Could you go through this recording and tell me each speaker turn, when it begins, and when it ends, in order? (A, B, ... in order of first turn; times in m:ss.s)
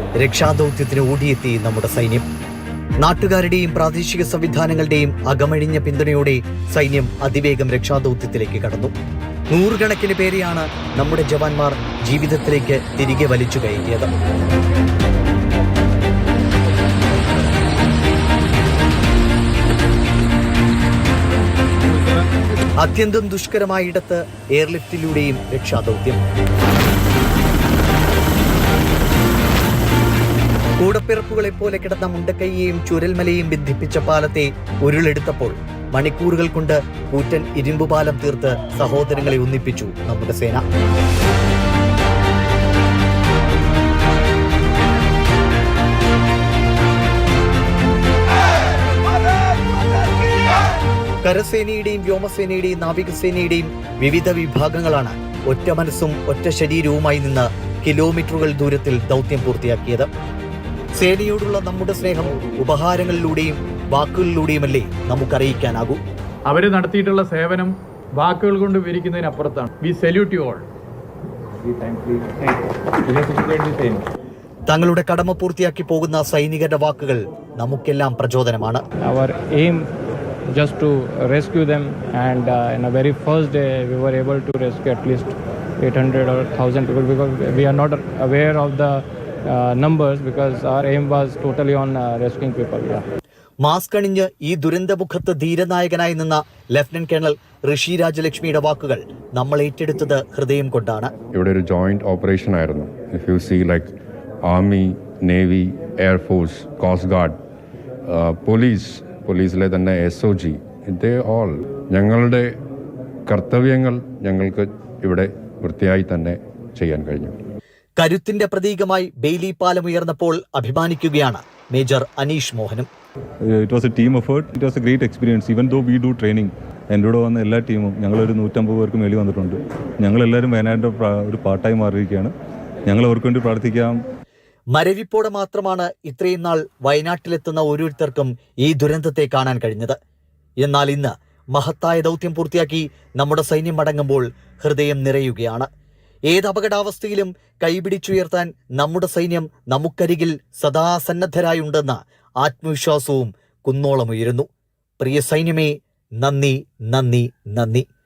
0:00.2-0:02.3 A
0:03.0-0:08.9 A
0:09.5-0:14.1 A
0:22.8-0:26.2 A
0:30.8-0:40.6 A
0:51.2-1:00.1 A
1:00.9-1:06.0 A
1:06.5-1:10.6 B
1:11.6-1:14.0 B
1:14.7-1:18.8 A
1:19.0-1:19.9 C
1:20.5-1:33.0 C
1:33.6-1:41.1 A
1:41.3-1:47.4 D
1:48.1-1:52.5 D
1:53.3-1:57.4 D
1:58.0-2:02.9 A
2:03.4-2:12.3 E
2:12.8-2:14.0 E
2:14.7-2:20.0 A
2:20.6-2:25.7 A
2:26.3-2:34.5 A
2:35.0-2:37.8 A